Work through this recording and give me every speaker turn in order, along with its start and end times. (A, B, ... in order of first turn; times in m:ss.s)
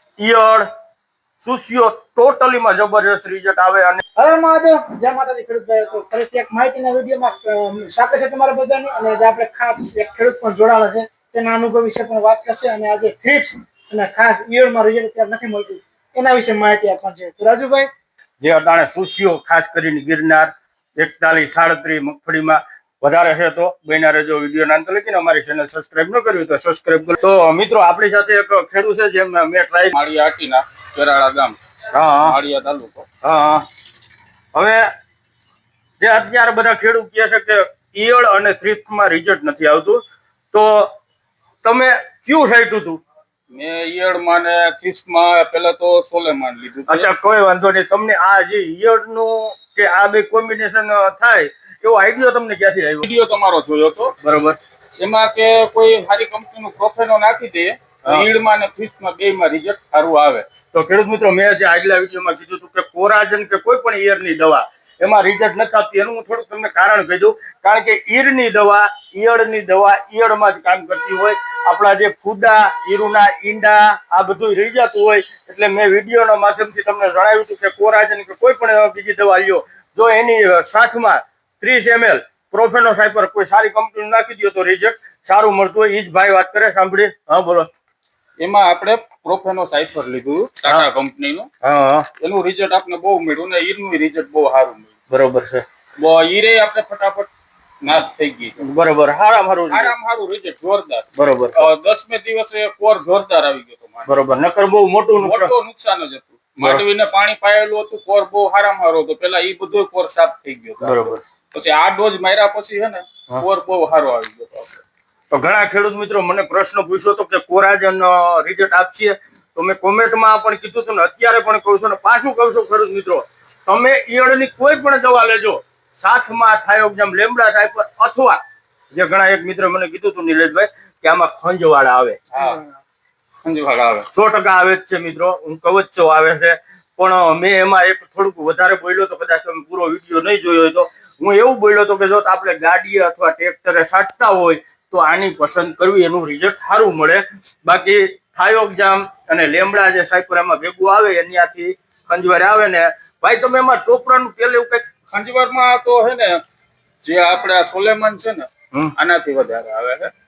0:00.2-0:00.7 A
0:01.4-0:04.0 A
0:04.2-0:17.9 B
0:18.4-0:30.0 A
0:29.9-0:31.6 C
0:31.9-0:32.4 A
0:32.2-0:33.1 C
0:33.2-0:33.7 A
0:34.5-0:34.9 A
0:36.0-0:41.0 A
0:41.6-0:43.0 A
0:43.5-0:47.1 C
0:46.9-0:53.1 A
0:53.0-0:54.1 C
0:54.2-0:54.6 A
0:55.0-1:00.5 C
1:00.7-1:27.7 A
1:28.4-1:31.5 C
1:31.6-1:32.1 A
1:32.2-1:34.9 C
1:35.1-1:35.6 A
1:36.0-1:37.3 C
1:37.8-1:38.6 C
1:38.6-1:39.9 A
1:39.7-1:44.2 C
1:41.2-1:41.7 A
1:44.1-1:45.5 A
1:45.2-1:54.8 C
1:50.8-1:51.2 A
1:55.3-2:08.4 A
2:08.9-2:12.2 A
2:12.3-2:12.7 C
2:13.4-2:14.1 C
2:14.1-2:34.9 A
2:35.1-2:36.4 C
2:37.0-2:40.1 C